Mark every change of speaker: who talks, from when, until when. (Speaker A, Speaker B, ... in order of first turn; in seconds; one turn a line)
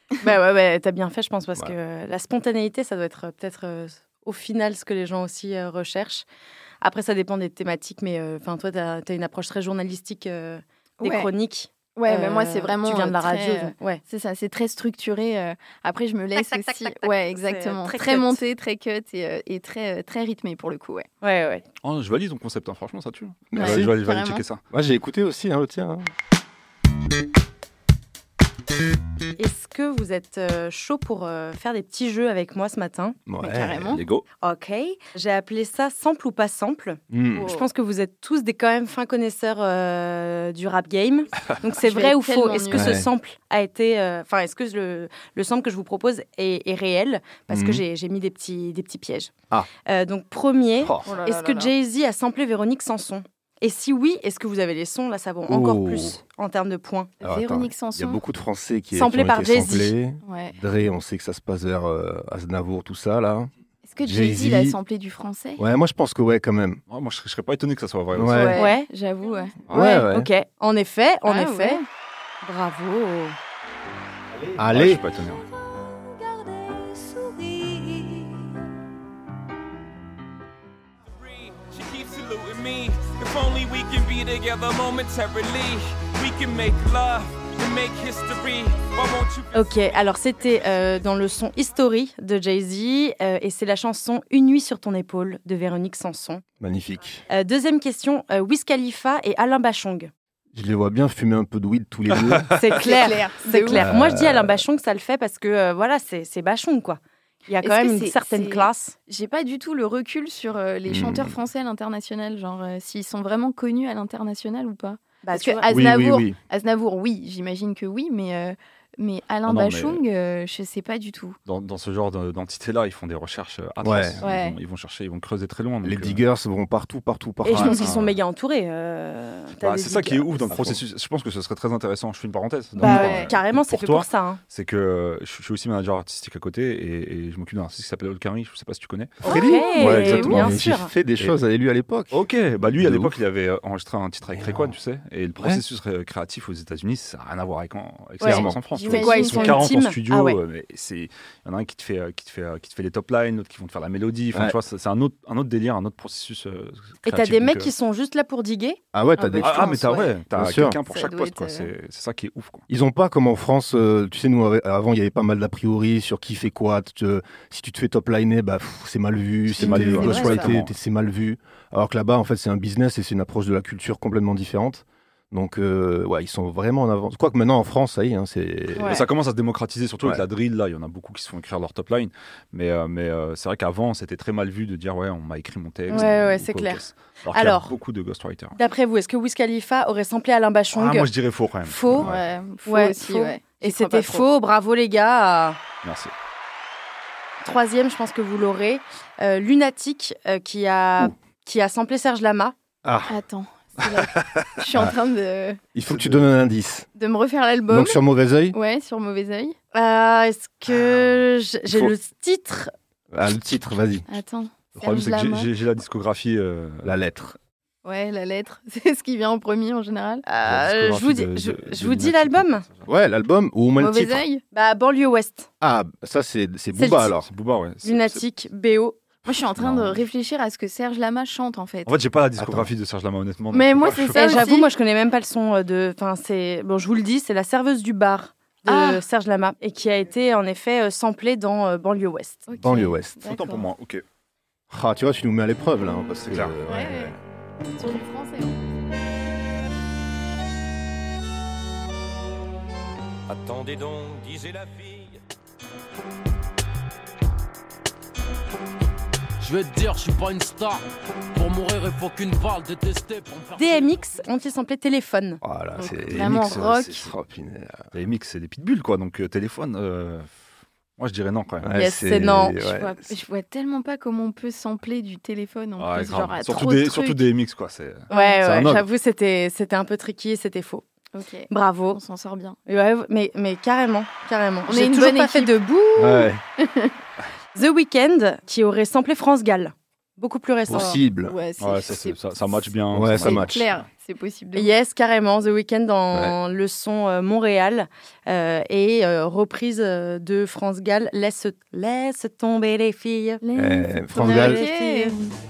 Speaker A: 0.2-6.2
Speaker A: 6.8-14.0
Speaker B: 11.0-11.3
Speaker B: 11.9-21.1
Speaker A: 16.3-18.4
Speaker A: 21.2-21.6
Speaker C: 21.8-24.6
Speaker D: 23.5-23.9
Speaker B: 23.5-24.4
Speaker D: 24.7-26.1
Speaker A: 29.4-33.2
Speaker D: 33.3-33.9
Speaker B: 33.4-34.0
Speaker C: 33.9-34.2
Speaker A: 34.4-49.3
Speaker D: 37.1-37.5
Speaker B: 37.4-37.6
Speaker B: 41.8-42.9
Speaker D: 42.7-43.1
Speaker D: 47.5-47.8
Speaker A: 49.8-57.1
Speaker D: 50.8-51.0
Speaker B: 51.0-51.7
Speaker D: 55.5-56.2
Speaker B: 57.2-58.2
Speaker D: 57.2-63.5
Speaker A: 58.9-59.9
Speaker B: 60.2-60.5
Speaker B: 63.9-65.6
Speaker D: 64.0-64.8
Speaker D: 65.6-66.8
Speaker C: 66.9-68.5
Speaker D: 68.1-68.6
Speaker B: 68.3-69.5
Speaker A: 68.5-68.9
Speaker A: 69.7-71.8
Speaker D: 69.7-70.3
Speaker B: 71.3-71.8
Speaker A: 72.4-73.4
Speaker D: 74.5-75.0
Speaker C: 74.6-75.4
Speaker A: 75.7-78.4
Speaker E: 81.1-89.9
Speaker A: 89.5-96.4
Speaker D: 96.6-97.2
Speaker A: 97.3-100.1
Speaker D: 100.5-102.6
Speaker A: 102.5-108.9
Speaker B: 102.7-103.9
Speaker D: 103.7-104.6
Speaker B: 107.6-121.4
Speaker D: 110.9-111.3
Speaker A: 115.2-115.7
Speaker D: 115.7-116.3
Speaker C: 119.5-120.0
Speaker C: 121.5-126.2
Speaker D: 123.8-124.2
Speaker B: 124.2-124.6
Speaker D: 125.8-127.8
Speaker A: 127.4-130.7
Speaker C: 127.5-128.1
Speaker C: 129.6-139.2
Speaker D: 130.5-130.8
Speaker A: 132.8-134.4
Speaker B: 132.8-133.3
Speaker D: 139.2-142.2
Speaker B: 139.2-140.1
Speaker A: 139.2-140.9
Speaker C: 139.8-141.3
Speaker C: 142.1-157.7
Speaker D: 142.8-143.2
Speaker D: 144.3-144.7
Speaker A: 148.2-150.4
Speaker D: 148.2-148.6
Speaker B: 148.2-149.8
Speaker A: 157.0-158.8
Speaker D: 158.9-159.8
Speaker B: 159.2-160.2
Speaker C: 159.4-162.7
Speaker D: 160.3-160.8
Speaker B: 160.9-161.7
Speaker D: 162.7-179.0
Speaker C: 169.5-170.7
Speaker B: 169.6-170.5
Speaker A: 169.6-170.3
Speaker A: 178.8-179.0
Speaker C: 178.8-188.5
Speaker A: 185.9-187.7
Speaker A: 188.5-191.1
Speaker C: 190.7-192.2
Speaker A: 191.6-192.1
Speaker B: 191.9-194.3
Speaker A: 192.7-195.6
Speaker C: 195.8-196.1
Speaker A: 197.4-202.5
Speaker D: 202.8-203.1
Speaker B: 203.1-205.6
Speaker C: 204.1-204.4
Speaker D: 205.7-206.9
Speaker C: 205.9-206.2
Speaker B: 207.0-208.0
Speaker D: 207.7-208.6
Speaker B: 208.5-209.6
Speaker A: 209.7-212.7
Speaker D: 213.1-214.1
Speaker B: 214.1-215.5
Speaker C: 214.8-216.9
Speaker D: 216.8-217.3
Speaker B: 217.8-220.2
Speaker A: 220.2-222.6
Speaker C: 220.4-222.8
Speaker D: 222.8-224.2
Speaker B: 223.8-224.4
Speaker A: 224.5-225.5
Speaker D: 225.6-227.3
Speaker A: 226.7-227.2
Speaker C: 227.2-228.2
Speaker A: 227.8-229.0
Speaker B: 229.2-231.9
Speaker C: 229.6-229.9
Speaker C: 231.8-234.4
Speaker D: 232.4-232.7
Speaker B: 233.5-234.7
Speaker A: 234.1-242.5
Speaker B: 238.7-239.0
Speaker B: 242.5-243.7
Speaker D: 242.6-243.2
Speaker C: 243.2-244.0
Speaker D: 244.7-247.2
Speaker C: 246.2-246.5
Speaker B: 246.7-247.2
Speaker B: 247.8-248.5
Speaker E: 253.3-255.2
Speaker F: 259.4-264.0
Speaker A: 263.5-265.4
Speaker D: 265.4-267.8
Speaker B: 265.8-267.1
Speaker C: 266.1-267.1
Speaker C: 267.9-270.3
Speaker C: 271.0-271.7
Speaker D: 271.6-273.0
Speaker A: 271.7-272.6
Speaker B: 272.6-277.2
Speaker C: 275.8-278.9
Speaker B: 278.1-278.4
Speaker A: 278.1-280.8
Speaker B: 281.1-282.6
Speaker A: 281.5-282.0
Speaker A: 282.6-286.3
Speaker B: 284.7-285.6
Speaker D: 286.0-286.4
Speaker B: 286.6-286.9
Speaker A: 287.5-291.0
Speaker D: 290.7-291.3
Speaker B: 290.7-294.7
Speaker C: 291.6-293.7
Speaker D: 292.9-293.6
Speaker A: 294.5-303.4
Speaker B: 303.4-305.3
Speaker D: 303.5-304.6
Speaker A: 304.1-305.2